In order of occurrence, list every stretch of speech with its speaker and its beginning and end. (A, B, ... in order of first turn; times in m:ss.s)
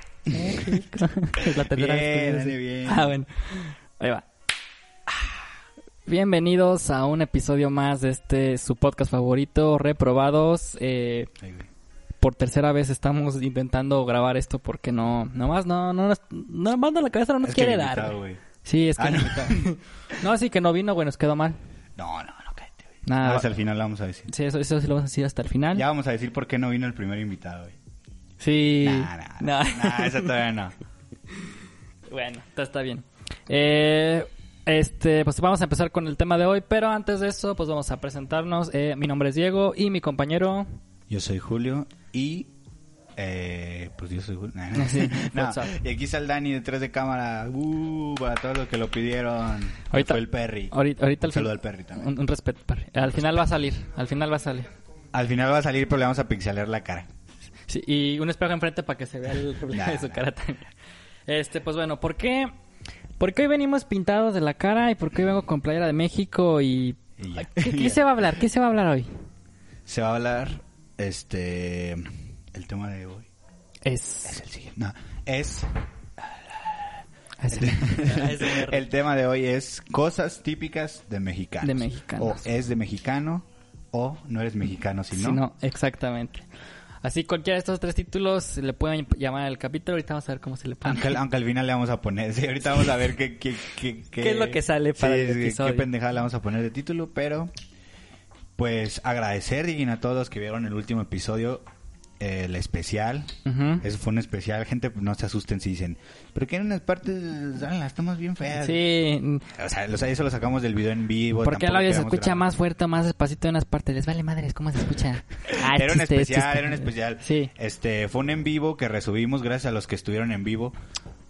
0:00.3-0:04.3 A
0:00.3-0:03.1 B
0:06.1-0:11.3 A
0:11.4-0:11.7 B
0:12.2-0:21.6 A
0:17.4-0:18.4 B
0:19.0-0:19.7 B
0:22.0-0:24.3 B
0:23.1-0:23.5 A
0:24.3-0:25.8 A
0:25.7-0:27.8 B
0:28.4-0:30.4 A
0:28.8-0:30.7 B
0:32.1-0:40.7 A
0:41.1-0:42.5 B
0:43.2-0:52.1 B
0:44.8-0:45.8 A
0:49.9-0:54.7 A
0:55.1-0:57.1 B
0:57.7-1:00.6 A
0:59.7-1:00.2 B
1:01.3-1:02.5 A
1:03.2-1:09.1 A
1:07.2-1:08.0 B
1:09.9-1:13.3 B
1:13.8-1:14.4 A
1:14.3-1:25.4 B
1:17.4-1:18.9 A
1:21.6-1:22.4 A
1:25.1-1:26.4 A
1:27.0-1:31.2 A
1:30.8-1:37.5 B
1:34.2-1:35.9 A
1:38.6-1:41.6 B
1:42.2-1:48.8 B
1:43.4-1:43.9 A
1:48.6-1:49.5 A
1:49.6-1:52.5 B
1:51.4-1:57.5 A
1:55.5-2:00.8 B